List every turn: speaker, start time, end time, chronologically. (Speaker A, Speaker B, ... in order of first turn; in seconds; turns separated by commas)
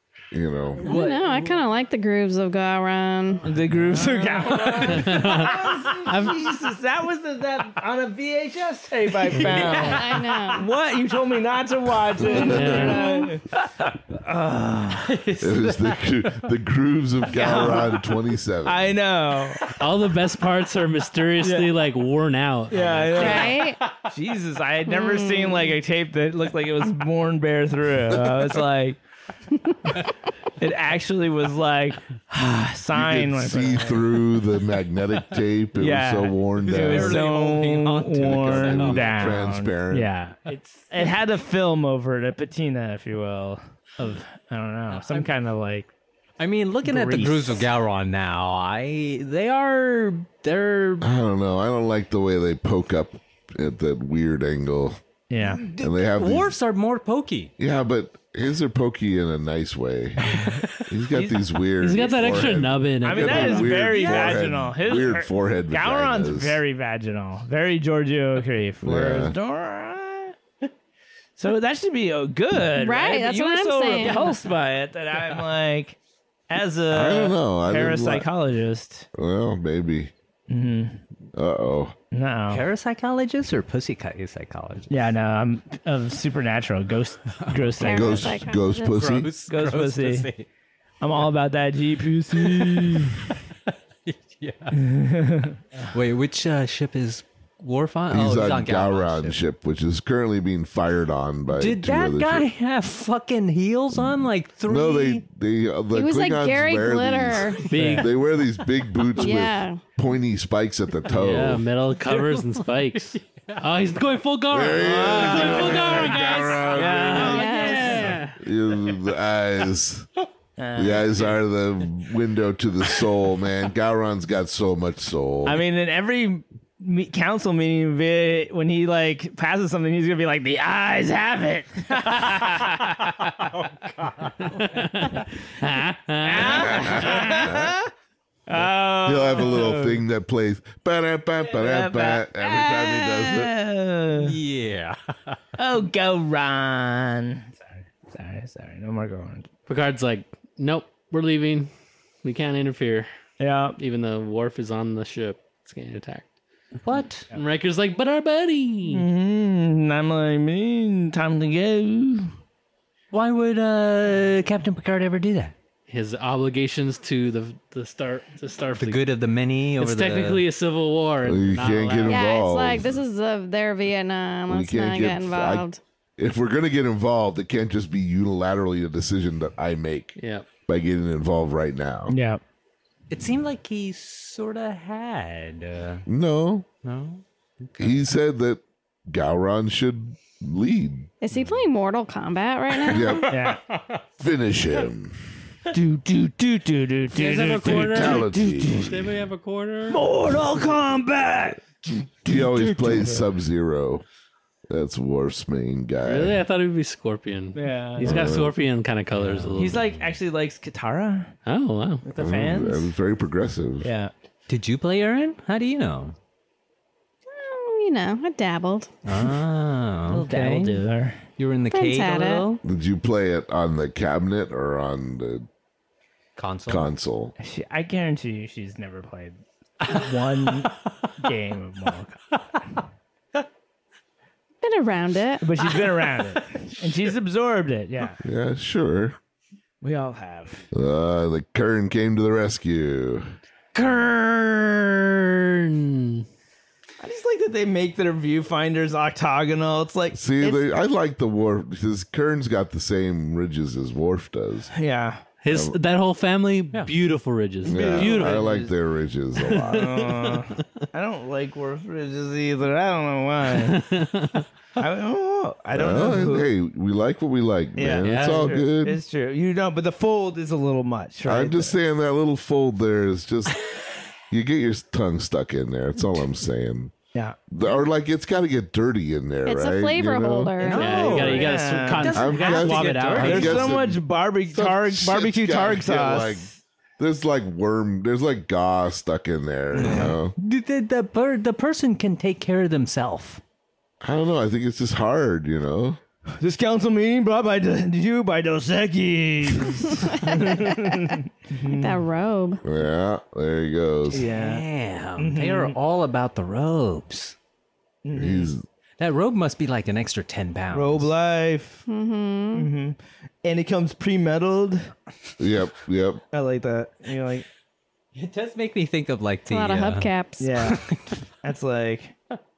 Speaker A: 0.3-0.9, Speaker B: 0.8-1.6, Speaker C: 0.8-3.5, Speaker D: 3.4-15.2, Speaker B: 3.7-5.9, Speaker E: 4.7-6.5, Speaker B: 9.3-10.2, Speaker E: 9.5-9.9, Speaker C: 9.5-10.7, Speaker C: 12.3-13.4, Speaker E: 12.4-13.1, Speaker B: 15.0-16.5, Speaker A: 15.4-19.0, Speaker D: 17.3-18.0, Speaker B: 17.5-17.8, Speaker D: 18.6-19.8, Speaker E: 19.7-23.5, Speaker D: 21.4-21.7, Speaker D: 22.7-23.6, Speaker B: 22.7-23.6, Speaker C: 23.1-23.8, Speaker D: 24.1-29.0, Speaker C: 24.9-25.7, Speaker D: 30.6-34.2, Speaker A: 32.9-37.3, Speaker D: 35.8-45.9, Speaker B: 36.6-39.4, Speaker A: 38.1-40.1, Speaker B: 44.9-45.3, Speaker B: 46.4-51.1, Speaker D: 46.8-47.7, Speaker A: 51.0-55.0, Speaker D: 55.3-55.7, Speaker B: 55.6-57.5, Speaker A: 55.8-56.6, Speaker A: 57.6-66.6, Speaker D: 61.1-61.4, Speaker E: 61.8-63.9, Speaker D: 62.0-62.5, Speaker D: 63.0-70.4, Speaker B: 64.0-64.4, Speaker A: 68.8-69.4, Speaker D: 71.4-76.0, Speaker C: 72.8-74.3, Speaker B: 74.0-74.3, Speaker D: 76.5-79.1, Speaker A: 76.9-78.3, Speaker A: 79.2-80.1, Speaker D: 80.5-81.0, Speaker A: 81.3-82.0, Speaker D: 82.1-82.6, Speaker B: 82.5-84.9, Speaker D: 84.9-88.4, Speaker B: 87.4-87.8, Speaker C: 87.8-89.1, Speaker A: 87.8-89.3, Speaker B: 88.8-90.5, Speaker D: 89.5-90.3, Speaker D: 91.0-93.2, Speaker B: 92.3-94.8, Speaker D: 94.8-95.6, Speaker B: 95.9-99.4, Speaker A: 98.1-102.5, Speaker B: 101.5-105.2, Speaker A: 104.0-111.7, Speaker C: 105.9-107.7, Speaker E: 107.7-108.1, Speaker B: 107.8-108.0, Speaker C: 109.2-109.8, Speaker E: 111.1-118.4, Speaker B: 112.0-113.7, Speaker A: 114.5-117.3, Speaker D: 114.8-116.2, Speaker D: 116.7-118.2, Speaker C: 117.2-118.1, Speaker A: 118.4-120.1, Speaker D: 120.6-121.4, Speaker A: 120.8-125.6, Speaker D: 125.5-132.9, Speaker B: 133.6-134.6, Speaker E: 134.5-137.5, Speaker D: 136.2-137.9, Speaker A: 136.5-137.7, Speaker D: 138.5-140.0, Speaker A: 139.1-143.5, Speaker D: 141.5-144.4, Speaker B: 144.2-145.4, Speaker D: 145.6-149.5, Speaker E: 149.7-151.7, Speaker E: 152.2-153.1, Speaker D: 153.4-153.8, Speaker E: 153.8-156.3, Speaker B: 156.8-157.3, Speaker E: 157.3-159.1, Speaker D: 158.9-162.3, Speaker B: 163.1-165.5, Speaker E: 165.9-169.0, Speaker B: 168.8-170.4, Speaker E: 169.8-172.3, Speaker A: 171.2-172.9, Speaker C: 172.1-175.8, Speaker A: 174.5-175.7, Speaker A: 176.2-180.2, Speaker E: 180.2-180.5, Speaker A: 180.7-182.2, Speaker D: 182.1-182.4, Speaker B: 183.1-186.1, Speaker A: 186.1-186.7, Speaker B: 186.8-188.1, Speaker A: 187.8-191.1, Speaker C: 191.2-193.3, Speaker A: 192.9-193.4, Speaker B: 193.1-194.0, Speaker D: 193.3-193.6, Speaker A: 194.2-195.2, Speaker D: 195.7-199.0, Speaker E: 197.1-200.1, Speaker A: 197.6-199.1, Speaker D: 199.9-203.3, Speaker A: 202.2-204.0, Speaker A: 204.7-206.4, Speaker E: 206.0-209.8, Speaker D: 207.6-208.3, Speaker A: 208.0-208.6, Speaker B: 209.1-210.2, Speaker D: 209.6-211.3, Speaker E: 211.5-212.0, Speaker D: 212.0-212.9, Speaker A: 212.2-213.9, Speaker D: 213.8-214.1, Speaker B: 214.5-216.2, Speaker C: 217.3-218.9, Speaker B: 219.1-220.8, Speaker D: 220.1-221.2, Speaker B: 221.4-222.6, Speaker C: 221.7-222.4, Speaker A: 222.6-225.5, Speaker B: 226.4-226.9, Speaker A: 226.7-227.3, Speaker D: 227.4-232.3, Speaker C: 234.6-235.5, Speaker D: 235.4-238.2, Speaker A: 238.2-239.2, Speaker D: 239.8-240.6, Speaker A: 240.7-243.3, Speaker E: 243.8-246.3, Speaker D: 247.0-250.7, Speaker A: 250.1-254.7, Speaker D: 254.7-255.2, Speaker E: 255.4-258.6, Speaker A: 255.5-255.8, Speaker A: 257.6-260.0, Speaker D: 257.6-258.7, Speaker E: 259.5-260.8, Speaker D: 259.6-263.9, Speaker E: 263.5-264.5, Speaker D: 264.8-266.5, Speaker A: 265.7-269.0, Speaker D: 267.8-271.8, Speaker E: 268.0-268.6, Speaker A: 271.2-273.7, Speaker A: 274.3-276.9, Speaker A: 277.5-280.5, Speaker C: 279.5-281.3, Speaker B: 280.6-283.7, Speaker D: 280.6-286.6, Speaker E: 280.7-283.7, Speaker A: 282.1-290.3, Speaker D: 289.7-290.1, Speaker B: 289.8-293.4, Speaker A: 294.0-296.0, Speaker D: 296.4-302.0, Speaker C: 300.0-300.9, Speaker C: 301.7-302.6, Speaker A: 302.6-304.3, Speaker B: 304.1-307.4, Speaker D: 304.1-304.6, Speaker D: 305.2-305.8, Speaker D: 308.0-308.5, Speaker A: 308.1-308.6, Speaker B: 309.0-311.1, Speaker D: 310.7-311.9, Speaker C: 311.9-312.7, Speaker D: 312.6-314.9, Speaker A: 315.4-316.2, Speaker D: 316.3-317.4, Speaker B: 318.1-321.2, Speaker C: 319.5-320.6, Speaker D: 320.4-320.8, Speaker D: 321.4-322.1